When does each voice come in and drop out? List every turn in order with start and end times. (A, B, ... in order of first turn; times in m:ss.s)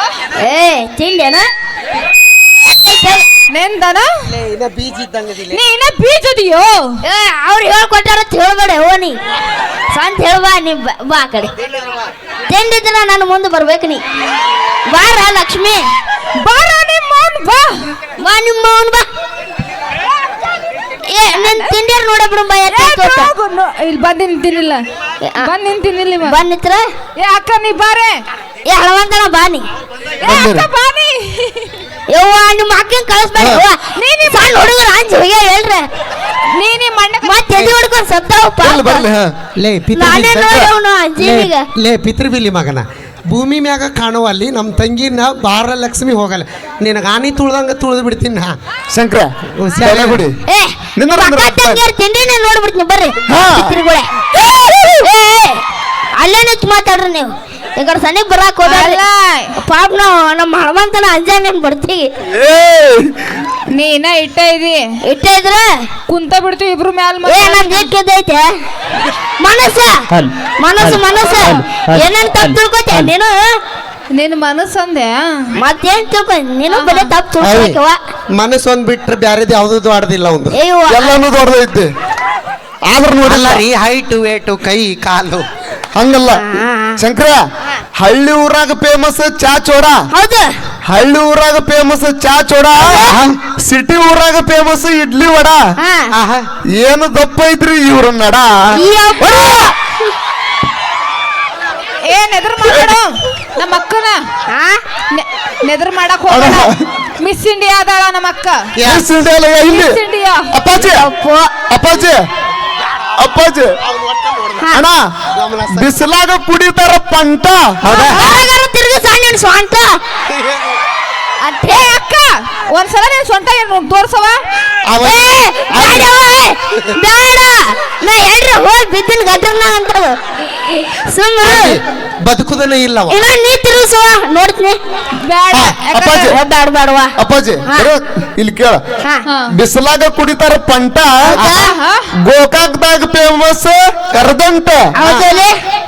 0:00.4-0:01.5 A
0:02.7-0:03.2 A
0:03.5-0:04.1 B
0:04.3-0:05.6 C
0:05.5-0:06.8 B
0:07.0-0:09.2 A
0:09.9-0:11.5 A
0:12.5-0:14.0 A
0:14.9-0:15.9 A
0:16.4-0:17.9 B
0:18.2-0:19.0 A
0:21.1-0:23.3 A
0:21.3-0:21.8 B
0:22.7-0:24.8 B
0:25.2-0:25.5 A
0:25.4-0:26.4 B
0:26.2-0:26.8 A
0:27.2-0:28.2 B
0:28.6-0:29.6 A
0:30.2-0:31.7 B
0:30.2-0:30.6 D
0:32.1-0:35.9 A
0:33.9-0:34.5 B
0:36.5-0:37.6 B
0:37.2-0:39.1 A
0:38.6-0:39.3 D
0:39.6-0:48.6 C
0:39.9-0:41.7 A
0:48.9-0:50.4 D
0:49.6-0:50.2 C
0:50.5-0:54.1 A
0:51.0-0:51.8 D
0:53.3-0:53.8 D
0:54.5-0:54.9 D
0:55.0-0:55.6 A
0:56.2-0:59.0 A
0:58.7-0:59.5 B
0:59.6-1:02.1 A
1:02.3-1:03.4 D
1:03.7-1:04.8 B
1:05.0-1:05.7 A
1:06.1-1:07.9 B
1:07.2-1:08.5 A
1:09.4-1:10.1 A
1:10.6-1:13.6 A
1:14.1-1:15.2 B
1:15.6-1:18.0 A
1:16.7-1:17.1 B
1:17.4-1:17.8 C
1:18.3-1:20.5 C
1:20.5-1:21.1 A
1:20.9-1:21.9 D
1:22.9-1:23.6 D
1:23.2-1:25.4 C
1:25.9-1:26.4 D
1:26.3-1:27.0 A
1:27.0-1:27.4 D
1:28.0-1:30.0 D
1:30.1-1:30.5 A
1:30.8-1:35.6 D
1:32.9-1:33.4 C
1:35.8-1:36.1 A
1:36.1-1:36.5 C
1:36.7-1:38.6 D
1:38.8-1:39.8 A
1:42.1-1:44.2 B
1:42.6-1:43.0 D
1:44.5-1:44.8 A
1:45.1-1:46.7 B
1:46.3-1:46.8 D
1:47.2-1:48.6 B
1:48.8-1:49.1 C
1:48.8-1:50.0 D
1:49.7-1:50.5 B
1:50.5-1:51.0 D
1:50.7-1:51.5 A
1:51.7-1:52.2 D
1:53.2-1:53.8 D
1:53.8-1:54.6 C
1:54.7-1:57.8 D
1:55.3-1:55.9 C
1:57.8-1:58.2 C
1:57.9-2:00.0 A
2:01.4-2:04.4 B
2:04.9-2:06.1 D
2:05.0-2:10.1 A
2:11.1-2:11.8 A
2:11.4-2:13.2 C
2:13.1-2:14.8 A
2:15.2-2:16.4 B
2:15.5-2:16.4 D
2:16.3-2:17.1 A
2:17.2-2:18.8 D
2:19.5-2:21.4 D
2:21.3-2:21.7 A
2:21.6-2:22.1 B
2:22.2-2:24.8 D
2:25.0-2:25.5 A